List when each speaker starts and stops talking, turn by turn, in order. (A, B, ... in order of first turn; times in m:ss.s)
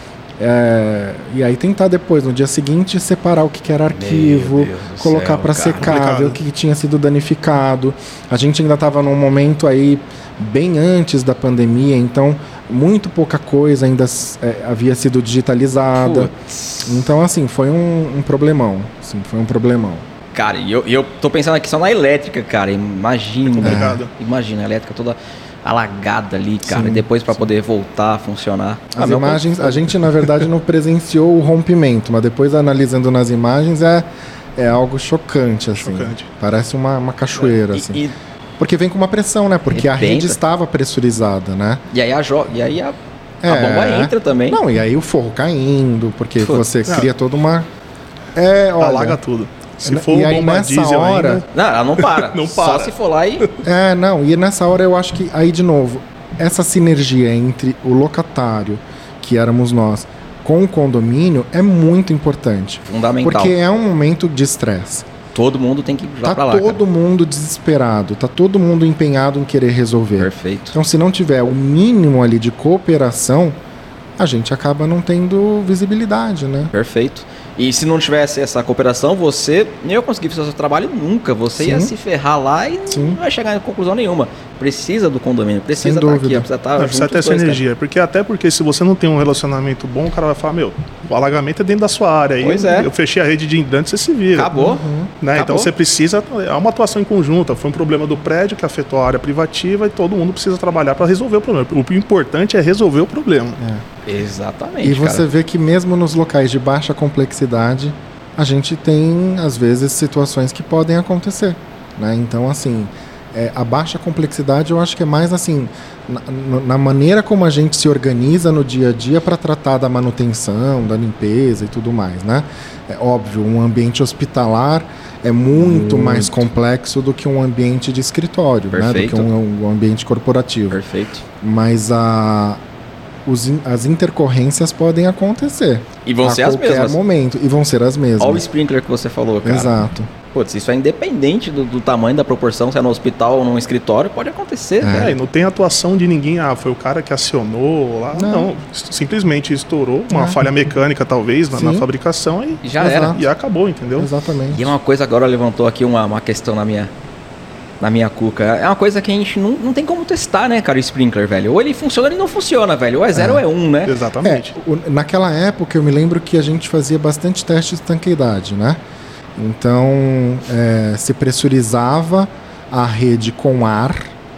0:00.4-0:16.3 A
0:03.9-0:05.9 B
0:05.8-0:06.4 C
0:16.0-0:17.0 B
0:16.8-0:20.0 A
0:20.3-0:29.9 B
0:23.5-0:24.1 C
0:23.6-0:24.0 A
0:26.6-0:27.4 A
0:28.9-0:38.0 A
0:35.8-0:36.3 C
0:37.4-0:38.1 B
0:38.6-0:41.8 A
0:39.7-0:40.4 B
0:41.9-0:44.6 B
0:43.4-0:47.7 A
0:48.3-0:49.2 A
0:48.8-0:53.5 C
0:49.8-0:51.4 A
0:51.5-0:53.4 B
0:53.6-1:05.1 A
1:02.8-1:03.6 B
1:05.3-1:06.8 B
1:06.2-1:13.6 A
1:10.2-1:10.8 B
1:14.2-1:16.7 A
1:16.7-1:27.6 B
1:21.5-1:21.9 A
1:22.9-1:23.2 A
1:25.8-1:26.5 A
1:26.8-1:34.6 C
1:32.4-1:32.9 B
1:34.3-1:35.7 B
1:34.5-1:35.1 A
1:35.2-1:43.6 C
1:44.0-1:45.2 B
1:44.8-2:10.8 A
2:05.6-2:06.5 B
2:08.7-2:09.3 B
2:10.7-2:11.2 B
2:11.4-2:12.6 A
2:13.2-2:18.4 A
2:16.0-2:17.0 B
2:18.2-2:19.8 B
2:19.4-2:20.1 A
2:20.3-2:25.1 B
2:24.8-2:25.2 A
2:24.9-2:34.1 C
2:28.1-2:28.5 A
2:30.1-2:30.4 A
2:31.5-2:31.9 A
2:32.6-2:33.2 B
2:32.8-2:33.2 A
2:34.0-2:34.7 A
2:34.5-2:36.9 B
2:37.8-2:44.0 B
2:43.1-2:43.4 A
2:43.8-2:44.5 C
2:44.2-2:48.8 A
2:49.4-2:54.1 A